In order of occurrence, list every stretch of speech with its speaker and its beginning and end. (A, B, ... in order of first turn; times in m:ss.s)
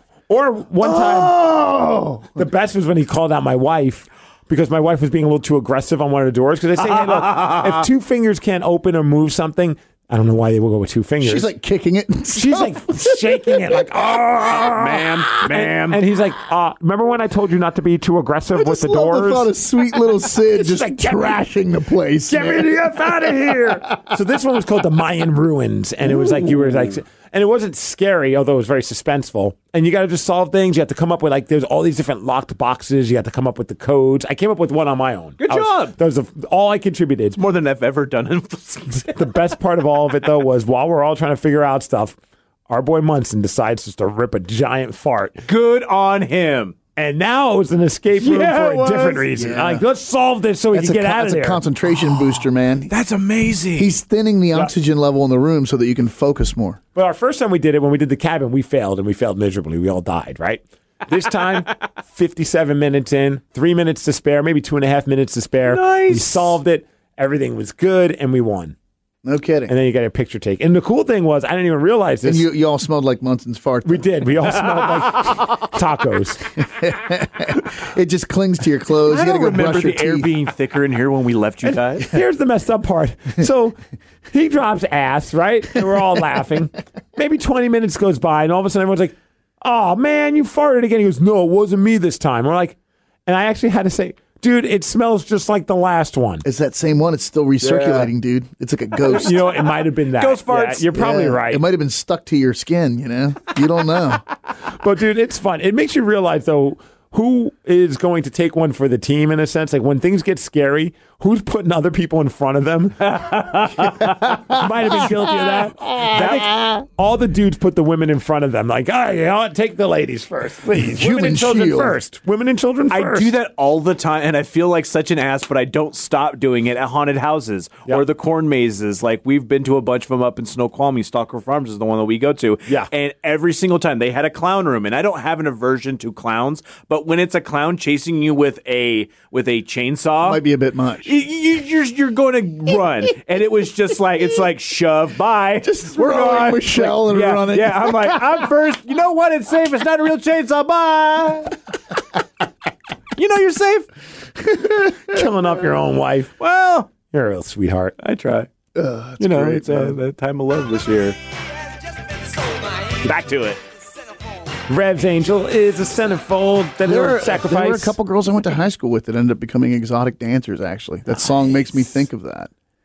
0:00.3-0:01.3 A
0:00.8-0:02.5 B
0:02.4-0:11.5 A
0:06.9-0:07.8 C
0:11.2-0:14.6 B
0:12.3-0:19.5 A
0:14.6-0:16.0 C
0:18.5-0:23.7 B
0:20.3-0:21.4 A
0:22.3-0:37.4 A
0:26.0-0:26.9 B
0:35.4-0:36.0 C
0:37.4-0:39.1 C
0:39.1-0:42.2 A
0:42.7-0:45.4 A
0:45.4-0:46.8 C
0:47.0-0:51.6 A
0:48.2-0:49.3 C
0:49.3-0:49.8 B
0:50.7-0:52.9 B
0:52.9-0:53.9 C
0:53.8-0:56.8 B
0:56.9-1:08.7 A
1:05.6-1:06.6 C
1:09.2-1:09.7 B
1:09.7-1:12.4 A
1:12.2-1:14.3 B
1:13.8-1:16.5 A
1:16.7-1:20.3 B
1:19.0-1:22.1 C
1:22.1-1:23.8 A
1:24.3-1:36.4 A
1:36.4-1:39.4 B
1:37.6-1:38.1 C
1:39.1-1:41.6 A
1:40.2-1:40.9 C
1:40.9-1:44.2 B
1:44.7-2:03.3 A
1:53.0-1:54.1 C
1:55.3-1:56.8 B
1:56.1-1:56.5 C
2:00.8-2:02.0 B
2:02.9-2:20.4 C
2:20.2-2:21.1 B
2:21.0-2:31.6 C
2:25.6-2:28.5 B
2:33.2-2:33.9 C
2:35.1-2:36.3 A
2:36.4-2:36.9 C
2:37.0-2:37.9 A
2:38.0-2:38.5 C
2:38.7-2:40.0 B
2:39.2-2:41.2 C
2:43.0-2:43.6 C
2:44.7-2:47.9 A
2:46.8-2:52.5 B